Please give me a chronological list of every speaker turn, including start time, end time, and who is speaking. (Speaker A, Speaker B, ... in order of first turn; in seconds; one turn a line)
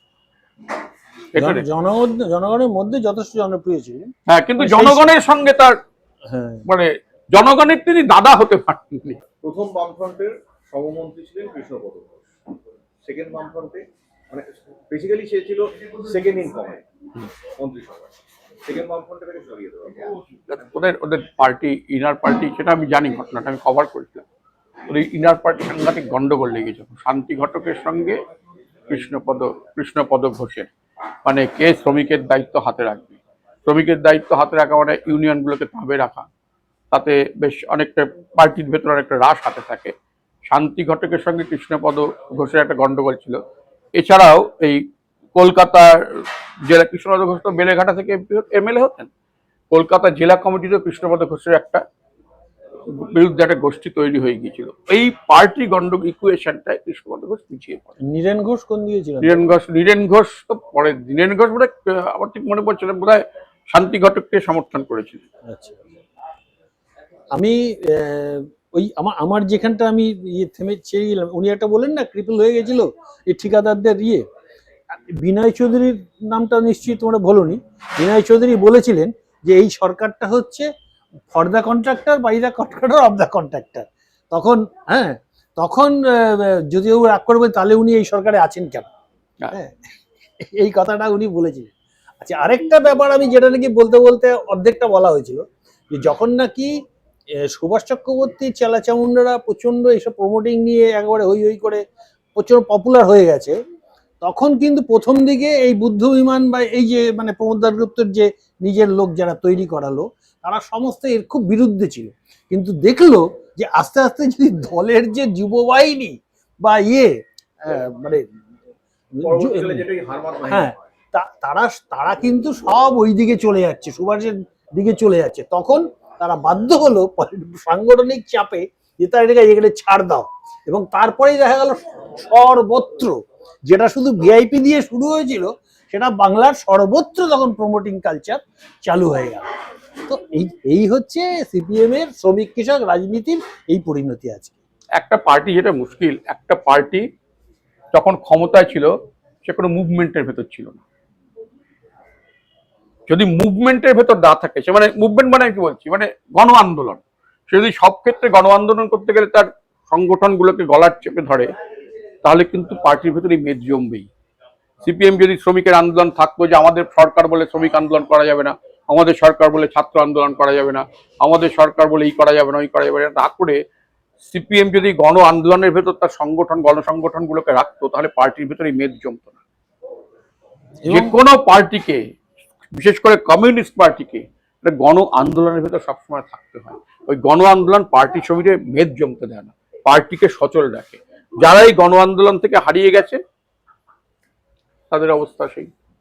Speaker A: 1.4-1.6
Speaker B: 1.4-5.2
Speaker A: 4.3-5.8
Speaker B: 6.3-6.6
Speaker A: 6.7-9.2
Speaker C: 9.4-12.2
Speaker C: 13.0-16.8
Speaker C: 17.5-18.1
Speaker C: 18.6-20.1
Speaker A: 20.5-24.2
Speaker A: 24.9-28.2
Speaker A: 28.9-30.7
Speaker A: 31.2-36.2
Speaker A: 36.9-39.9
Speaker A: 40.5-43.4
Speaker A: 44.0-44.8
Speaker A: 45.4-49.1
Speaker A: 49.7-51.8
Speaker A: 52.9-58.0
Speaker B: 58.0-59.4
Speaker A: 59.2-65.2
Speaker B: 65.5-65.8
Speaker B: 67.3-74.2
Speaker B: 75.2-80.7
Speaker B: 81.3-88.9
Speaker B: 90.4-91.7
Speaker B: 92.2-96.7
Speaker B: 97.5-101.8
Speaker B: 102.4-103.6
Speaker B: 104.2-117.1
Speaker B: 117.6-118.2
Speaker B: 119.2-119.9
Speaker C: 119.2-120.8
Speaker B: 120.5-139.4
Speaker B: 140.1-144.6
Speaker A: 145.0-147.0
Speaker A: 147.9-148.9
Speaker A: 149.4-150.8
Speaker A: 153.1-161.5
Speaker A: 162.2-164.1
Speaker A: 164.8-173.6
Speaker A: 174.2-179.4
Speaker B: 180.8-181.1
Speaker A: 180.9-182.0
Speaker A: 182.7-193.2
Speaker A: 194.9-195.7